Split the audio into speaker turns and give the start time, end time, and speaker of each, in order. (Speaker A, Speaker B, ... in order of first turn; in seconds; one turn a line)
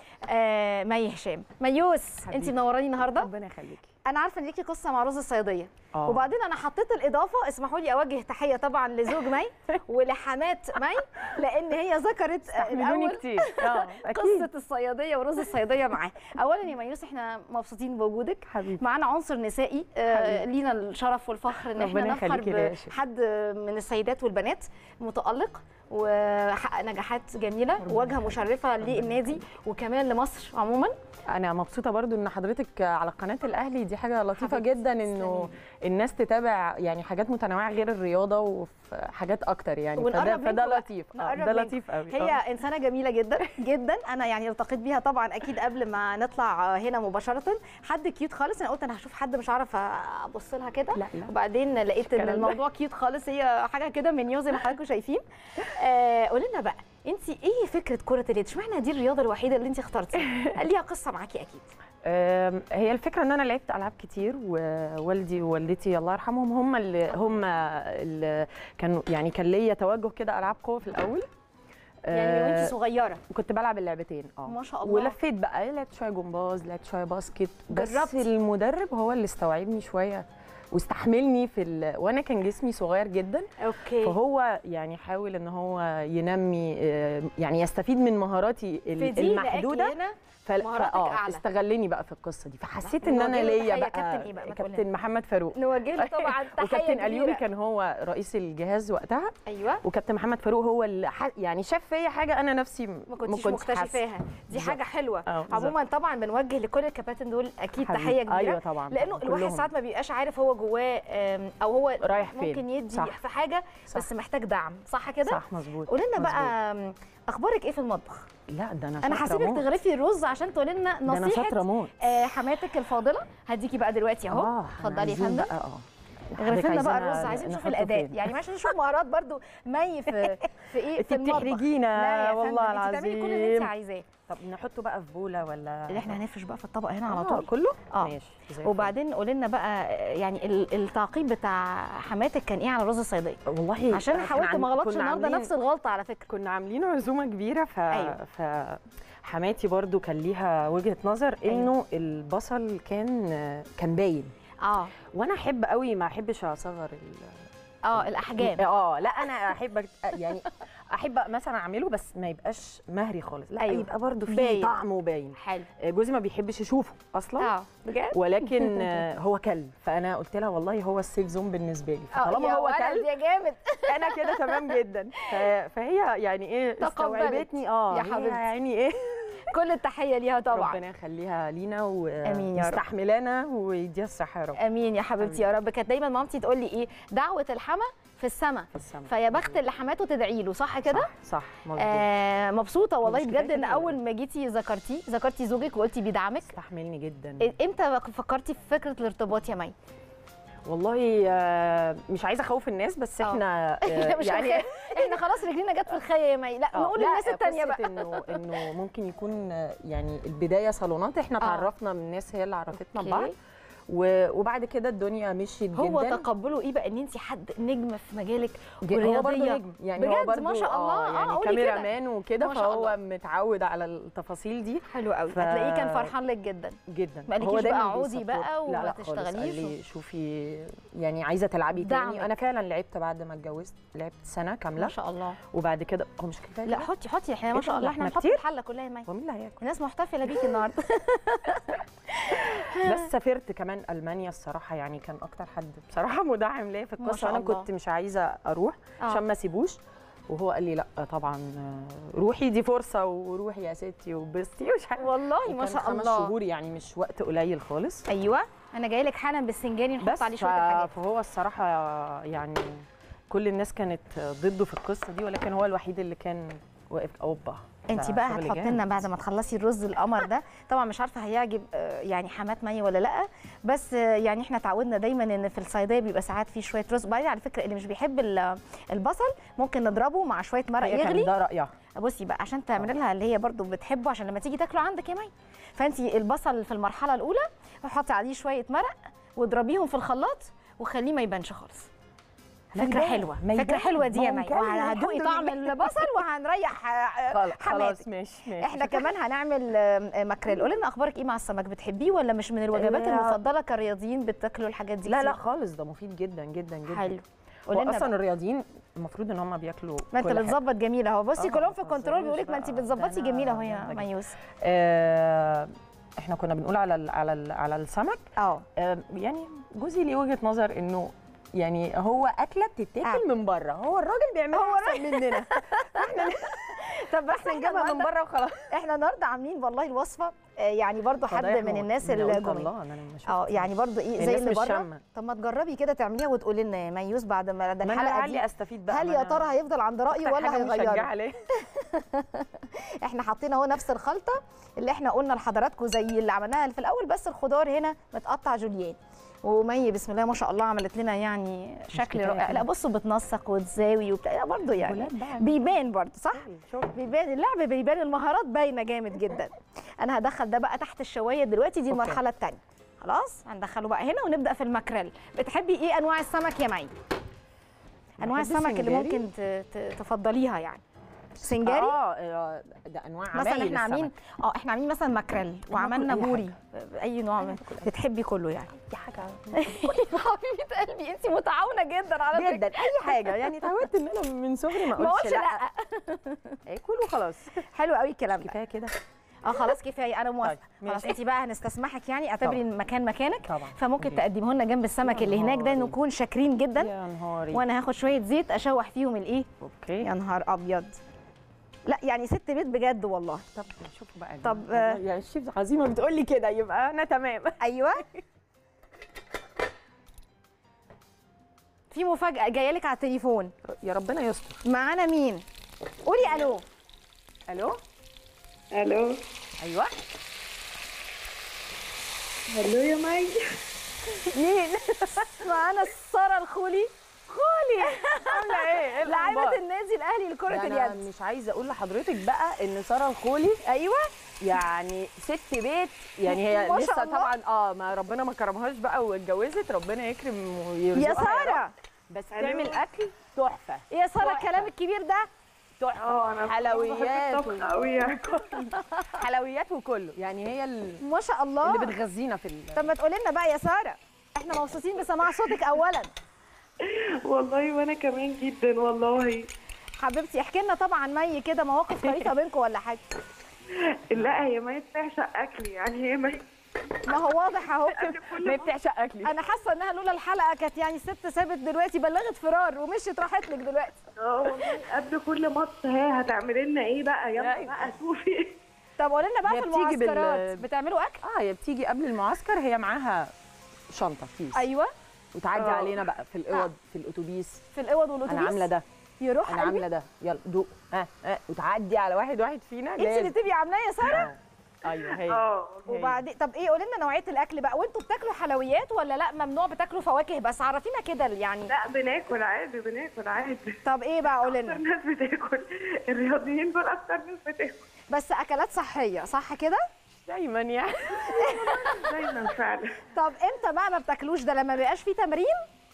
Speaker A: 0.2-3.3
Speaker B: 2.2-3.9
Speaker A: 4.0-30.9
Speaker B: 5.9-6.2
Speaker B: 12.5-14.5
Speaker B: 18.5-18.8
Speaker B: 20.1-20.4
Speaker B: 21.7-22.9
Speaker B: 27.8-29.3
Speaker B: 31.3-42.4
Speaker A: 34.4-35.5
Speaker A: 40.0-61.7
Speaker B: 50.9-51.3
Speaker B: 52.0-52.6
Speaker B: 60.2-60.5
Speaker B: 62.0-71.3
Speaker B: 72.1-72.7
Speaker A: 72.1-73.2
Speaker B: 73.3-83.5
Speaker A: 74.5-75.1
Speaker A: 77.7-78.2
Speaker A: 83.6-84.2
Speaker B: 84.0-105.7
Speaker A: 89.0-91.4
Speaker A: 92.8-94.8
Speaker A: 95.5-97.4
Speaker A: 99.5-99.8
Speaker A: 103.1-118.2
Speaker B: 107.8-109.7
Speaker B: 112.0-113.2
Speaker B: 115.2-116.5
Speaker B: 118.5-119.7
Speaker A: 119.0-125.5
Speaker B: 121.0-122.1
Speaker B: 124.3-128.3
Speaker A: 126.4-134.1
Speaker B: 130.1-133.7
Speaker B: 134.3-136.2
Speaker A: 135.9-143.4
Speaker B: 137.1-138.9
Speaker B: 143.4-145.5
Speaker A: 143.9-146.2
Speaker B: 146.3-154.3
Speaker A: 147.9-148.2
Speaker A: 154.6-154.9
Speaker B: 155.1-167.5
Speaker A: 157.8-158.7
Speaker A: 163.6-164.8
Speaker A: 165.4-165.7
Speaker A: 167.4-168.9
Speaker B: 168.1-173.1
Speaker A: 172.1-175.3
Speaker B: 173.9-179.5
Speaker A: 176.8-178.5
Speaker A: 179.4-180.8
Speaker B: 180.5-184.6
Speaker A: 182.2-182.8
Speaker A: 184.6-191.1
Speaker B: 185.2-185.5
Speaker B: 188.7-189.6
Speaker B: 190.8-192.1
Speaker A: 191.8-196.5
Speaker B: 193.0-194.0
Speaker B: 196.5-197.5
Speaker A: 197.4-199.7
Speaker B: 200.7-205.2
Speaker A: 203.2-208.4
Speaker B: 206.7-213.3
Speaker A: 211.4-211.7
Speaker A: 212.8-213.3
Speaker B: 213.9-216.3
Speaker A: 215.7-221.9
Speaker B: 218.8-226.1
Speaker A: 222.4-222.9
Speaker A: 224.9-226.8
Speaker B: 226.9-235.0
Speaker A: 227.3-229.8
Speaker A: 231.8-232.3
Speaker A: 234.8-235.4
Speaker B: 235.5-236.9
Speaker A: 236.7-239.1
Speaker B: 237.5-238.4
Speaker B: 239.1-239.6
Speaker A: 239.6-243.0
Speaker B: 242.4-258.1
Speaker A: 247.0-247.7
Speaker A: 255.0-256.3
Speaker A: 258.1-260.9
Speaker B: 260.0-268.8
Speaker A: 267.9-281.3
Speaker B: 280.8-281.7
Speaker A: 281.9-291.9
Speaker A: 292.7-298.0
Speaker B: 292.7-296.2
Speaker B: 297.3-299.1
Speaker A: 298.6-305.4
Speaker B: 302.7-303.4
Speaker B: 305.1-310.6
Speaker A: 306.9-308.1
Speaker A: 310.1-314.4
Speaker B: 311.4-318.2
Speaker A: 318.4-318.6
Speaker B: 318.8-328.7
Speaker A: 324.5-328.1
Speaker A: 328.7-332.7
Speaker B: 331.3-335.0
Speaker A: 333.3-341.1
Speaker B: 337.8-339.6
Speaker B: 340.1-341.4
Speaker A: 341.6-366.9
Speaker B: 351.9-352.7
Speaker B: 354.8-355.8
Speaker B: 356.3-357.0
Speaker B: 361.9-362.2
Speaker A: 368.2-370.8
Speaker B: 368.2-369.3
Speaker A: 371.4-371.9
Speaker B: 371.4-374.1
Speaker A: 373.3-378.8
Speaker B: 375.7-376.5
Speaker B: 377.4-377.9
Speaker B: 378.9-380.1
Speaker A: 379.5-383.4
Speaker B: 382.3-385.6
Speaker A: 384.7-386.6
Speaker B: 386.7-387.6
Speaker A: 387.5-388.6
Speaker B: 388.3-388.9
Speaker A: 389.4-396.9
Speaker B: 390.4-391.2
Speaker B: 393.4-394.2
Speaker B: 395.0-396.0
Speaker B: 396.8-397.6
Speaker A: 397.5-399.5
Speaker B: 399.6-400.1
Speaker A: 400.0-401.0
Speaker A: 401.9-403.4
Speaker B: 403.5-408.2
Speaker A: 404.4-405.0
Speaker A: 407.6-408.0
Speaker A: 411.9-413.5
Speaker B: 413.6-414.6
Speaker A: 414.6-415.4
Speaker A: 416.0-416.6
Speaker B: 417.5-417.8
Speaker C: 418.7-419.1
Speaker B: 419.6-419.9
Speaker C: 422.5-423.4
Speaker B: 424.2-425.5
Speaker A: 425.2-431.0
Speaker B: 427.7-429.6
Speaker B: 430.5-433.6
Speaker A: 433.6-434.1
Speaker B: 434.4-444.7
Speaker A: 436.2-437.3
Speaker A: 440.9-441.7
Speaker A: 442.3-442.8
Speaker A: 443.9-445.3
Speaker B: 445.8-451.0
Speaker C: 446.1-448.2
Speaker A: 448.6-449.1
Speaker A: 451.0-451.9
Speaker B: 451.6-452.9
Speaker A: 452.7-456.1
Speaker C: 457.3-459.5
Speaker A: 460.0-463.0
Speaker B: 462.0-462.3
Speaker C: 464.1-466.4
Speaker A: 467.1-468.2
Speaker C: 467.9-468.6
Speaker B: 468.2-469.4
Speaker A: 469.2-474.0
Speaker C: 474.2-478.5
Speaker B: 477.4-477.9
Speaker A: 479.0-481.2
Speaker B: 479.4-480.7
Speaker B: 481.2-483.3
Speaker B: 483.9-484.7
Speaker A: 484.5-484.9
Speaker B: 485.3-487.6
Speaker C: 485.6-485.9
Speaker A: 487.7-488.7
Speaker B: 488.3-488.8
Speaker A: 489.2-489.9
Speaker B: 489.5-493.4
Speaker A: 493.0-494.3
Speaker B: 494.0-496.2
Speaker C: 495.1-495.9
Speaker A: 495.9-501.7
Speaker C: 501.7-503.8
Speaker A: 503.8-504.8
Speaker C: 504.5-507.8
Speaker A: 508.1-509.8
Speaker B: 510.3-512.2
Speaker A: 511.3-511.9
Speaker C: 512.1-512.9
Speaker A: 513.1-515.6